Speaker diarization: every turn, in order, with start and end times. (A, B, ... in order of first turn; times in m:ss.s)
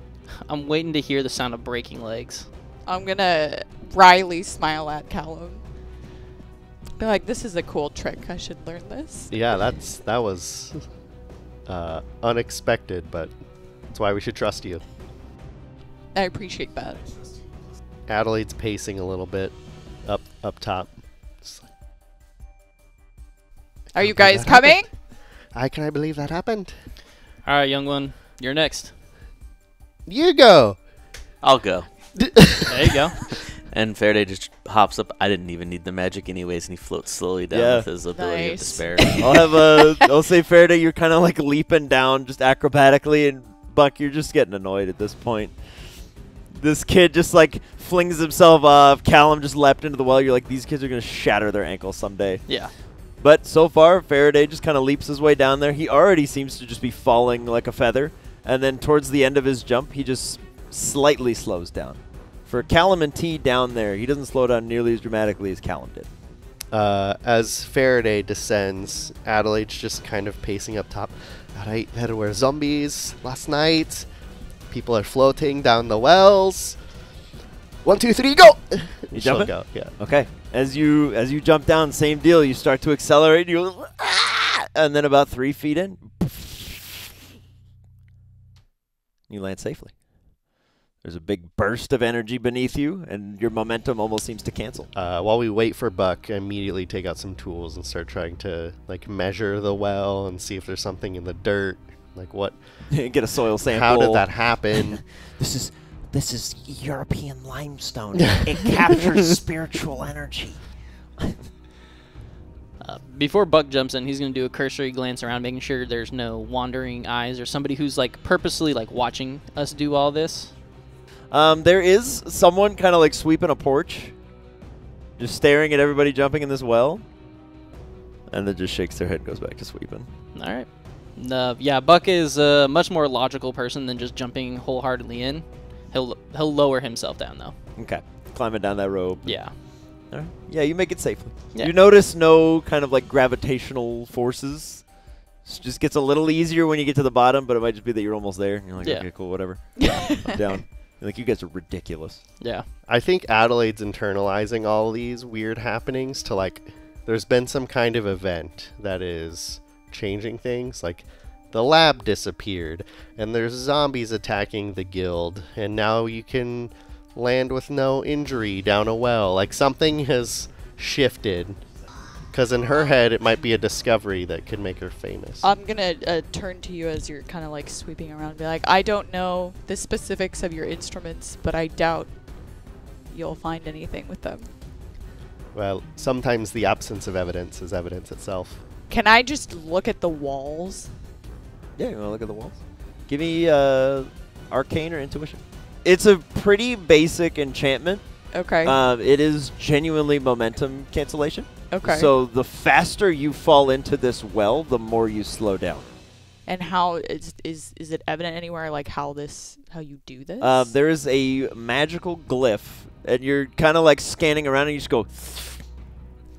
0:00.4-0:02.5 A
0:02.9-0:05.7 B
0:07.0-0:09.7 B
0:09.3-0:10.9 C
0:11.6-0:13.3 C
0:13.9-0:14.8 C
0:16.1-0:17.1 B
0:18.1-0:21.7 C
0:23.9-0:24.9 B
0:24.0-0:26.8 C
0:27.4-0:28.9 A
0:30.1-0:30.8 C
0:31.4-0:32.4 D
0:32.2-0:32.9 C
0:32.6-0:33.2 A
0:33.5-0:39.4 D
0:37.5-0:37.9 E
0:38.1-0:39.9 B
0:39.2-1:06.1 E
0:52.5-0:52.7 A
1:06.7-1:14.1 C
1:14.7-1:17.0 C
1:17.8-1:20.0 C
1:19.1-1:27.1 E
1:29.3-1:30.5 E
1:31.0-1:34.9 E
1:34.9-1:45.0 C
1:42.9-1:51.5 E
1:52.8-2:00.6 A
2:01.3-2:04.2 E
2:05.2-2:07.1 E
2:08.3-2:10.1 E
2:10.4-2:17.6 A
2:17.8-2:32.2 E
2:19.2-2:19.6 A
2:28.8-2:29.1 A
2:29.8-2:30.2 B
2:32.4-2:32.7 A
2:32.9-2:51.6 C
2:52.2-2:55.5 C
2:55.4-3:04.5 B
3:05.5-3:08.6 C
3:08.9-3:11.0 B
3:11.8-3:25.9 E
3:18.3-3:18.8 B
3:21.7-3:22.1 B
3:26.4-3:30.7 B
3:30.4-3:35.7 E